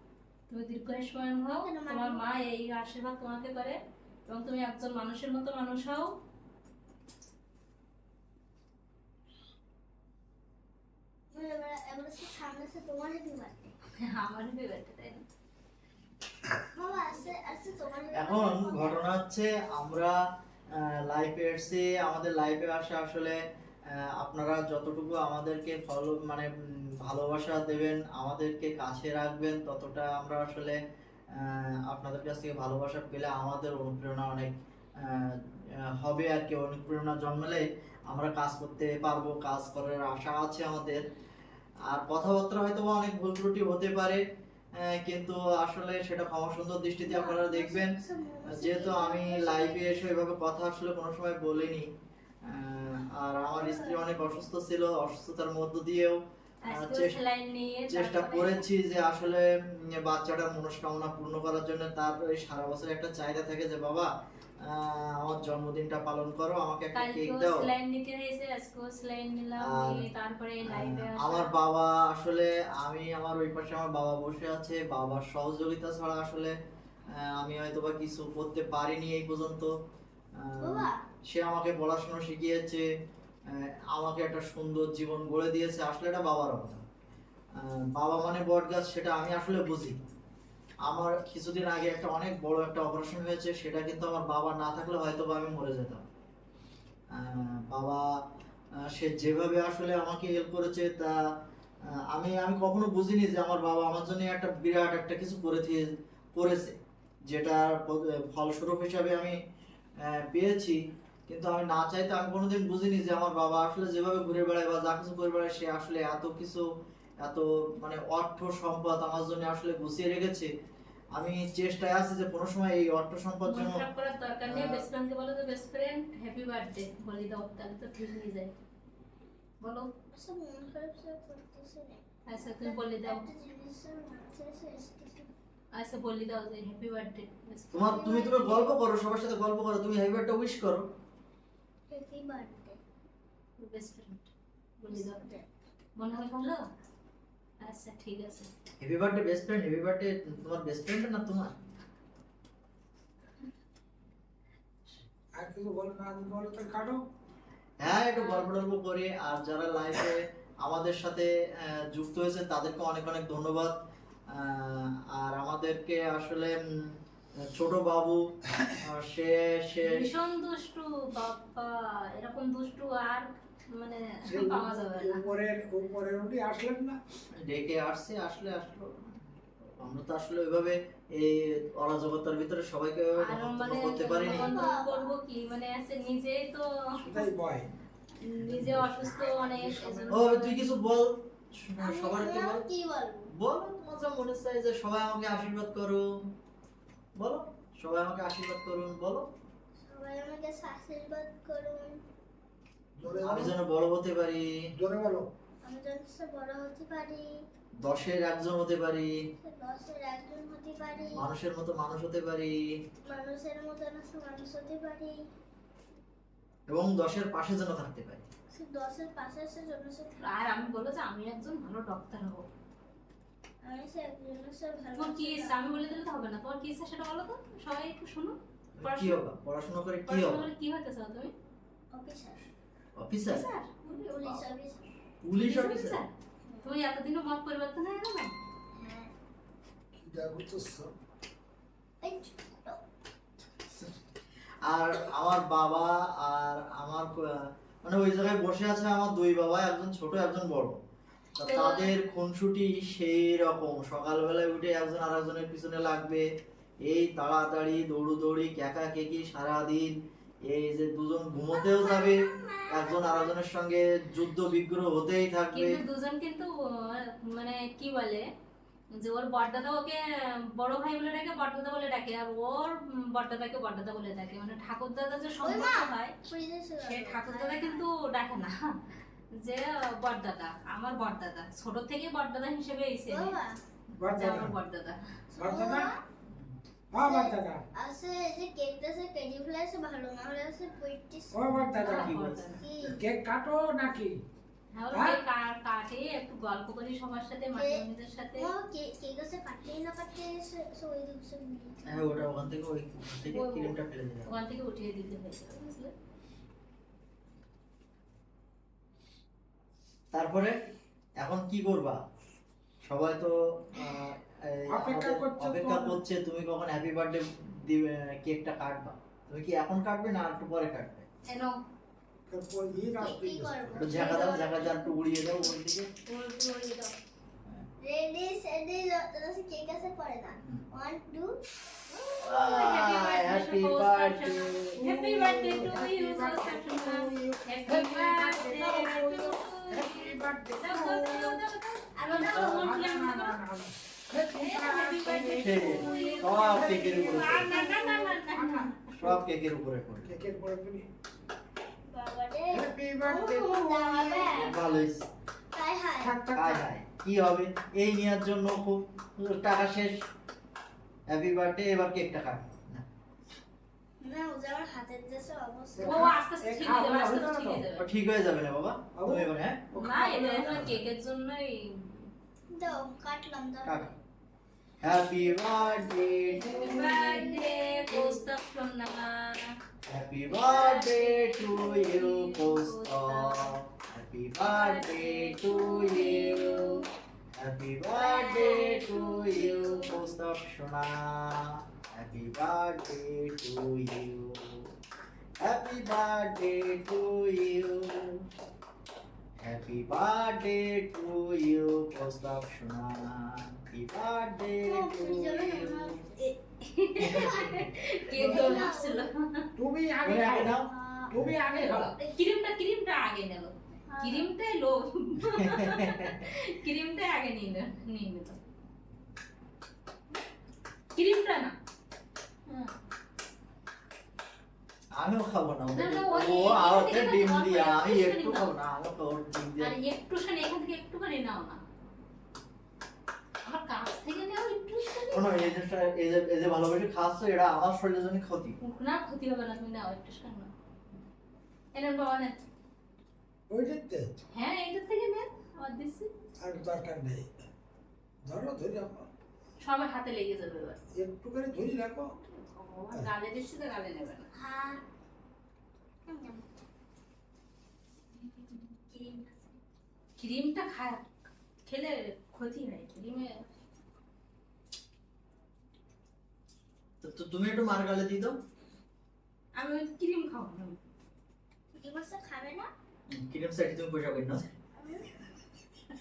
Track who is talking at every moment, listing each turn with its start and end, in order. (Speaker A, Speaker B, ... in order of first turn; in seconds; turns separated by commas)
Speaker A: 0.5-6.1, Speaker B: 1.5-2.3, Speaker B: 11.3-13.7, Speaker A: 14.0-15.2, Speaker B: 16.7-19.1, Speaker C: 18.1-20.2, Speaker C: 20.7-30.8, Speaker C: 31.3-41.0, Speaker C: 41.9-44.2, Speaker C: 44.8-47.9, Speaker B: 47.1-50.1, Speaker C: 48.5-51.9, Speaker C: 52.4-57.2, Speaker B: 53.5-54.0, Speaker A: 56.6-58.7, Speaker C: 57.9-67.7, Speaker A: 66.9-71.5, Speaker C: 69.6-70.1, Speaker C: 70.7-76.5, Speaker C: 77.1-79.7, Speaker C: 80.4-82.9, Speaker B: 80.6-81.0, Speaker C: 83.5-86.8, Speaker C: 87.5-90.0, Speaker C: 90.8-96.0, Speaker C: 97.1-98.2, Speaker C: 98.8-101.2, Speaker C: 101.9-106.8, Speaker C: 107.3-109.4, Speaker C: 110.0-116.7, Speaker C: 117.2-120.5, Speaker C: 121.2-123.8, Speaker A: 123.5-128.5, Speaker C: 124.5-124.9, Speaker A: 129.6-129.9, Speaker B: 130.1-132.0, Speaker A: 132.3-133.2, Speaker B: 132.6-135.3, Speaker A: 135.7-138.2, Speaker C: 137.7-140.9, Speaker B: 137.8-138.7, Speaker B: 141.9-142.8, Speaker A: 143.6-145.2, Speaker B: 144.9-145.5, Speaker A: 146.0-146.6, Speaker A: 147.6-148.5, Speaker C: 148.8-151.5, Speaker D: 155.4-157.0, Speaker C: 157.8-168.2, Speaker A: 158.1-158.5, Speaker C: 168.8-170.1, Speaker A: 169.8-175.3, Speaker D: 174.3-177.0, Speaker C: 177.3-184.7, Speaker A: 183.2-187.3, Speaker B: 184.1-185.1, Speaker D: 187.0-187.7, Speaker A: 188.2-190.6, Speaker C: 188.5-188.9, Speaker D: 188.6-190.2, Speaker C: 190.1-192.7, Speaker B: 191.8-193.3, Speaker C: 193.3-196.3, Speaker C: 197.2-199.3, Speaker B: 199.8-202.0, Speaker D: 203.0-203.6, Speaker C: 203.1-204.6, Speaker D: 204.7-205.3, Speaker B: 205.6-207.3, Speaker C: 207.8-209.1, Speaker B: 209.4-211.2, Speaker C: 211.2-212.6, Speaker B: 213.1-215.2, Speaker C: 216.7-218.2, Speaker B: 218.5-220.2, Speaker A: 220.2-222.5, Speaker B: 223.6-225.6, Speaker A: 225.0-229.2, Speaker C: 228.8-230.5, Speaker A: 230.1-231.3, Speaker B: 231.9-232.4, Speaker C: 233.0-233.5, Speaker A: 233.3-234.4, Speaker B: 233.8-234.9, Speaker C: 235.2-236.0, Speaker A: 235.4-236.1, Speaker A: 236.6-238.3, Speaker B: 238.7-239.1, Speaker D: 240.0-240.9, Speaker B: 242.0-242.8, Speaker C: 244.7-250.8, Speaker C: 251.4-256.3, Speaker A: 251.4-251.9, Speaker C: 256.8-265.8, Speaker B: 261.5-263.4, Speaker A: 265.5-268.3, Speaker A: 268.9-276.1, Speaker B: 275.4-277.9, Speaker A: 276.8-278.8, Speaker A: 279.4-283.4, Speaker B: 283.1-283.6, Speaker D: 284.0-284.5, Speaker A: 284.1-285.0, Speaker B: 285.3-286.0, Speaker D: 285.4-285.9, Speaker C: 286.3-286.6, Speaker D: 286.9-287.6, Speaker B: 287.0-291.5, Speaker D: 291.3-292.1, Speaker C: 291.5-292.7, Speaker A: 291.8-292.6, Speaker B: 292.6-293.0, Speaker D: 292.8-294.2, Speaker A: 294.8-298.5, Speaker D: 294.9-295.2, Speaker B: 297.6-297.9, Speaker B: 298.4-302.1, Speaker C: 301.9-304.4, Speaker A: 303.3-303.7, Speaker A: 304.3-305.9, Speaker C: 310.1-310.6, Speaker C: 311.2-312.0, Speaker C: 312.9-321.1, Speaker D: 314.7-316.0, Speaker A: 321.3-321.5, Speaker D: 322.3-324.0, Speaker B: 323.0-324.8, Speaker C: 323.8-325.9, Speaker A: 323.9-324.6, Speaker A: 326.1-326.9, Speaker B: 327.8-331.4, Speaker A: 331.9-343.4, Speaker C: 332.2-334.8, Speaker D: 334.8-341.4, Speaker B: 342.0-342.7, Speaker D: 342.1-349.2, Speaker A: 344.3-348.9, Speaker C: 345.4-347.7, Speaker C: 349.0-350.1, Speaker D: 350.1-350.9, Speaker B: 351.9-354.6, Speaker D: 352.5-354.5, Speaker C: 354.3-355.1, Speaker B: 355.5-356.2, Speaker D: 356.0-356.6, Speaker C: 356.4-360.1, Speaker C: 361.1-362.9, Speaker B: 364.0-366.1, Speaker D: 365.8-367.7, Speaker A: 365.8-367.9, Speaker C: 367.8-369.7, Speaker D: 368.9-370.7, Speaker A: 369.8-372.1, Speaker C: 370.4-370.8, Speaker B: 372.5-373.9, Speaker C: 373.6-373.9, Speaker C: 374.8-377.0, Speaker B: 375.3-378.2, Speaker A: 376.5-379.5, Speaker C: 379.9-386.8, Speaker A: 380.3-383.5, Speaker A: 384.4-386.8, Speaker C: 387.4-394.7, Speaker A: 387.9-390.1, Speaker C: 395.4-398.2, Speaker C: 399.4-406.1, Speaker B: 404.6-406.2, Speaker A: 406.2-409.5, Speaker C: 407.0-407.8, Speaker B: 407.1-407.4, Speaker B: 408.2-409.1, Speaker D: 408.2-408.6, Speaker D: 409.6-410.6, Speaker C: 410.0-411.8, Speaker B: 410.5-412.1, Speaker D: 411.1-411.9, Speaker A: 412.1-418.4, Speaker B: 413.9-414.3, Speaker C: 415.2-416.3, Speaker A: 420.9-421.5, Speaker C: 424.9-429.8, Speaker A: 425.7-428.5, Speaker A: 429.6-431.6, Speaker A: 433.4-435.3, Speaker C: 435.1-438.6, Speaker A: 438.6-440.5, Speaker A: 441.7-442.4, Speaker D: 443.5-444.1, Speaker A: 444.3-446.1, Speaker D: 446.4-447.3, Speaker D: 448.2-449.1, Speaker A: 449.6-450.8, Speaker D: 450.9-452.1, Speaker A: 452.3-454.3, Speaker B: 454.3-454.8, Speaker B: 456.1-456.5, Speaker B: 458.2-459.4, Speaker A: 460.2-461.1, Speaker A: 461.7-463.5, Speaker C: 467.0-468.4, Speaker A: 469.6-470.8, Speaker B: 471.7-472.7, Speaker C: 473.1-474.5, Speaker B: 474.8-475.1